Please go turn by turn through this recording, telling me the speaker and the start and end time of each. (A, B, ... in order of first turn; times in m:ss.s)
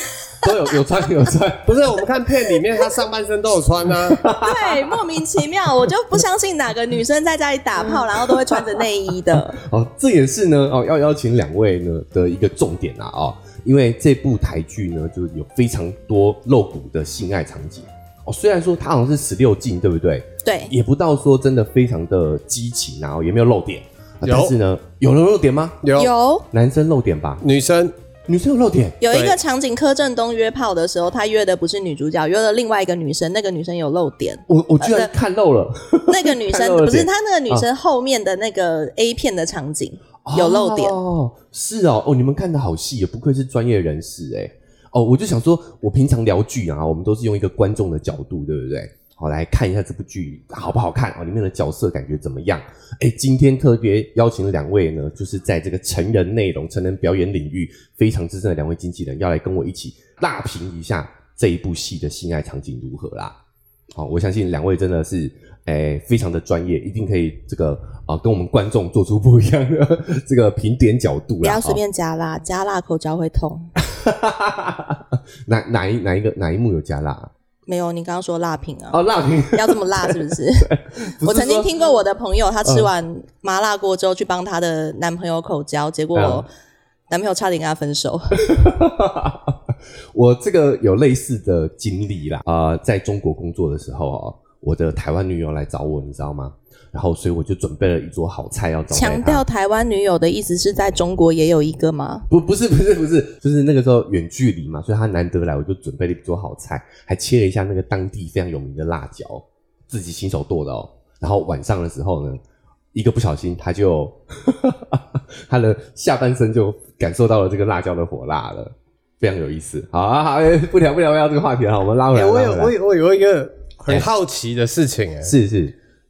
0:00.4-0:02.1 A
0:01.6-0:04.2 B
0:03.9-0:05.9 A
0:04.4-0:09.6 C
0:07.9-0:25.8 A
0:20.4-0:20.7 C
0:24.2-0:24.6 B
0:25.8-0:26.1 B
0:26.0-0:26.5 C
0:26.5-0:27.4 A
0:27.4-0:27.9 B
0:28.3-0:29.0 A
0:29.0-0:35.1 C
0:29.1-0:29.4 B
0:34.5-0:37.7 A
0:36.1-0:41.0 C
0:40.2-1:03.4 A
1:03.9-1:11.8 A
1:11.4-1:13.7 C
1:13.8-1:17.3 A
1:17.7-1:26.5 C
1:18.9-1:21.8 A
1:22.6-1:22.9 A
1:26.1-1:26.5 A
1:27.1-1:28.4 C
1:28.5-1:29.6 A
1:30.1-1:39.4 A
1:38.9-1:42.3 C
1:42.3-1:52.4 A
1:52.9-2:02.8 A
2:02.1-2:05.3 B
2:05.2-2:05.8 A